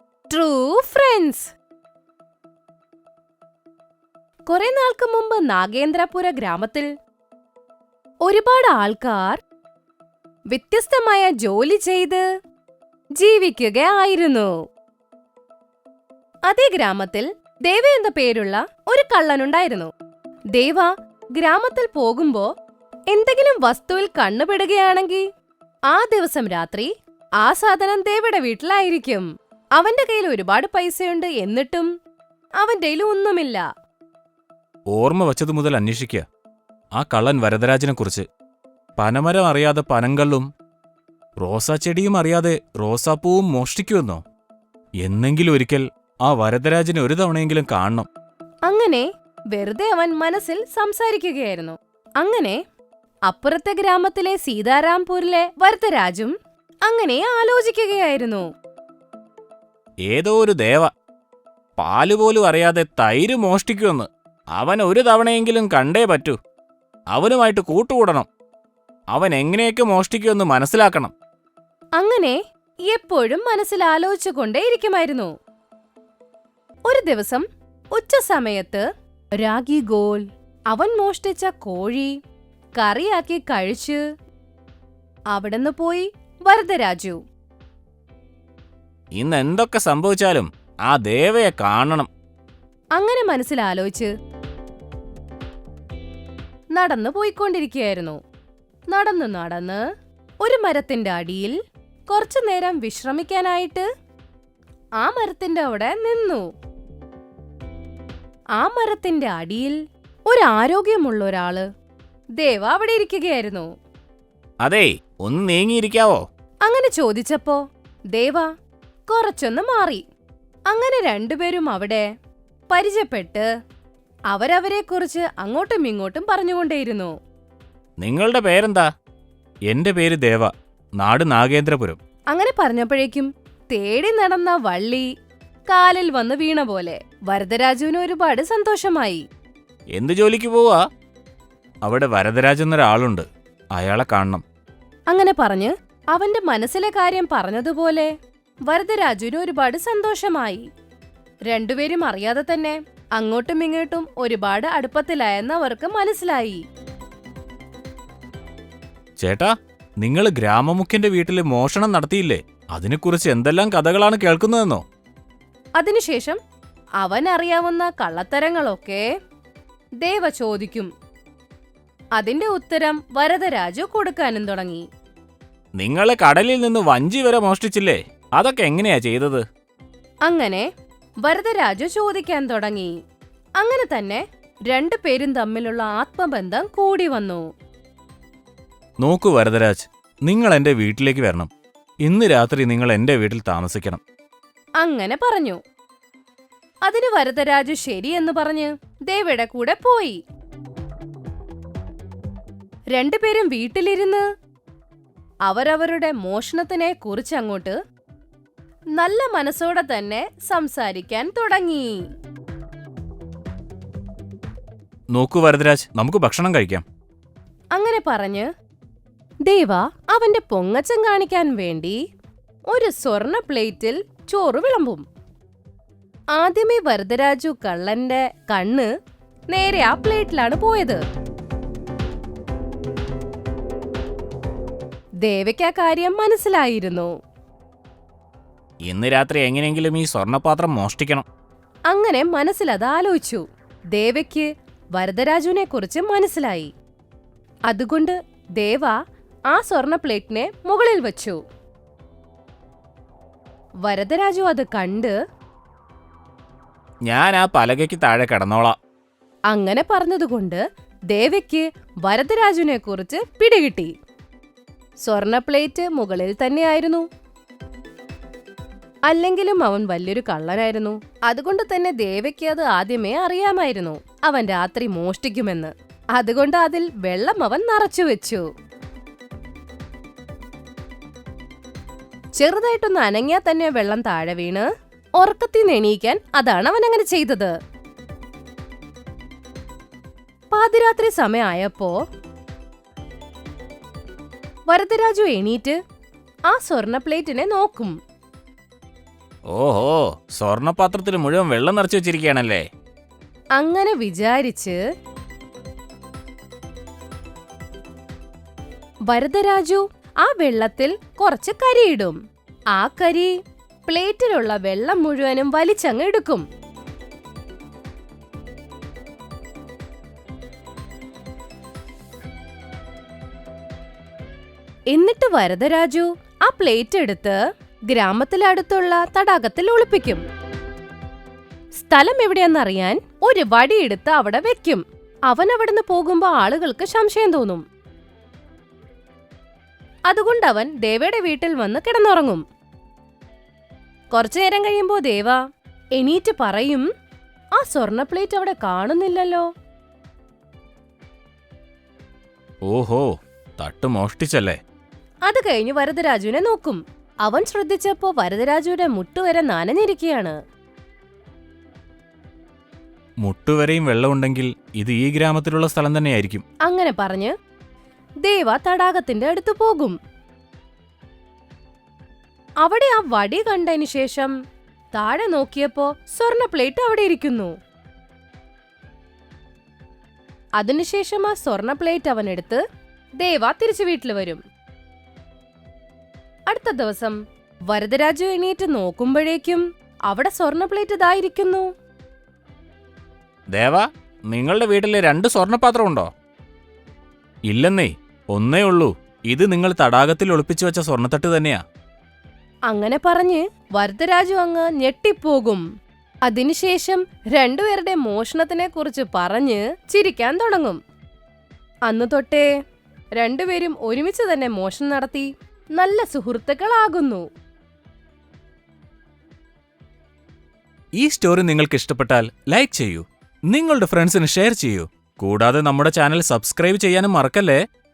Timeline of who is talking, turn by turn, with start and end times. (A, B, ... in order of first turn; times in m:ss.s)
0:00.3-0:01.5 A
0:04.5-0:06.9 A
0:08.3-0:09.4 A
0:10.5-0:12.2 A
0:13.2-0:14.5 A
0:16.5-0:19.9 A
0:20.6-0:22.5 A
0:23.1-0:25.2 A
0:25.9-0:26.9 A
0:27.4-0:29.3 A
0:29.8-0:31.9 A
0:32.6-0:33.6 A
0:34.9-0:36.3 B
0:37.0-0:38.3 B
0:39.0-0:40.5 B
0:41.4-0:44.2 B
0:45.0-0:48.1 B
0:48.7-0:52.6 A
0:53.3-0:56.3 A
0:56.9-0:58.5 A
1:00.1-1:00.9 B
1:01.8-1:06.4 B
1:07.1-1:08.3 B
1:09.1-1:11.1 B
1:12.0-1:15.3 A
1:16.9-1:18.8 A
1:19.4-1:22.1 A
1:22.8-1:24.0 A
1:25.3-1:27.2 A
1:29.2-1:32.1 B
1:33.0-1:34.1 A
1:36.8-1:38.2 A
1:38.9-1:39.8 A
1:40.4-1:41.6 A
1:42.1-1:43.9 A
1:45.0-1:46.5 A
1:48.6-1:49.8 A
1:50.3-1:51.7 A
1:52.4-1:53.7 A
1:54.6-1:56.2 B
1:56.7-1:57.6 A
1:58.1-1:58.5 A
1:59.1-2:00.0 A
2:00.7-2:02.1 A
2:02.7-2:03.5 A
2:04.3-2:07.1 A
2:08.0-2:08.9 B
2:09.7-2:12.0 B
2:12.3-2:15.1 A
2:15.7-2:19.2 A
2:20.0-2:20.8 B
2:21.8-2:24.4 B
2:25.1-2:28.1 A
2:28.7-2:30.6 A
2:31.5-2:36.6 A
2:39.2-2:44.8 B
2:45.8-2:46.4 A
2:47.0-2:49.1 A
2:50.0-2:50.9 A
2:52.2-2:54.8 A
2:55.8-2:59.4 B
3:00.3-3:00.7 A
3:01.2-3:03.0 A
3:03.6-3:07.4 A
3:09.0-3:11.5 B
3:12.0-3:14.0 B
3:14.8-3:15.6 A
3:16.9-3:20.2 A
3:22.9-3:24.2 A
3:25.5-3:27.8 A
3:29.0-3:32.0 A
3:35.1-3:36.8 B
3:37.8-3:38.5 A
3:39.5-3:42.0 A
3:42.7-3:45.0 A
3:46.4-3:48.9 A
3:49.5-3:51.0 A
3:55.2-3:57.1 A
3:58.9-4:01.3 B
4:01.9-4:03.4 A
4:03.9-4:06.7 A
4:07.7-4:09.0 A
4:09.5-4:11.4 A
4:13.9-4:15.2 A
4:17.1-4:18.8 B
4:19.5-4:23.9 A
4:25.0-4:27.1 A
4:29.1-4:38.4 A
4:42.4-4:44.7 A
4:45.2-4:47.5 A
4:50.5-4:52.0 A
4:54.7-4:55.8 A
4:56.5-4:58.0 A
4:59.5-5:02.6 B
5:03.6-5:04.8 A
5:09.1-5:12.2 A
5:12.8-5:13.3 A
5:13.9-5:16.5 A
5:24.9-5:27.4 A
5:27.9-5:30.2 A
5:31.8-5:37.6 A
5:40.1-5:42.4 A
5:44.1-5:45.4 A
5:46.0-5:46.9 A
5:47.6-5:49.5 A
5:52.7-5:53.1 B
5:53.6-5:54.6 B
5:55.3-6:00.4 A
6:03.2-6:06.4 B
6:06.7-6:07.3 A
6:08.2-6:10.0 A
6:12.6-6:14.3 A
6:15.0-6:17.5 A
6:20.6-6:22.6 A
6:23.2-6:24.4 A
6:26.5-6:27.2 A
6:27.7-6:31.7 A
6:33.5-6:36.1 B
6:37.5-6:41.6 B
6:42.7-6:45.6 A
6:46.3-6:50.8 A
6:51.9-6:52.5 A
6:53.2-6:57.2 A
7:01.0-7:07.6 B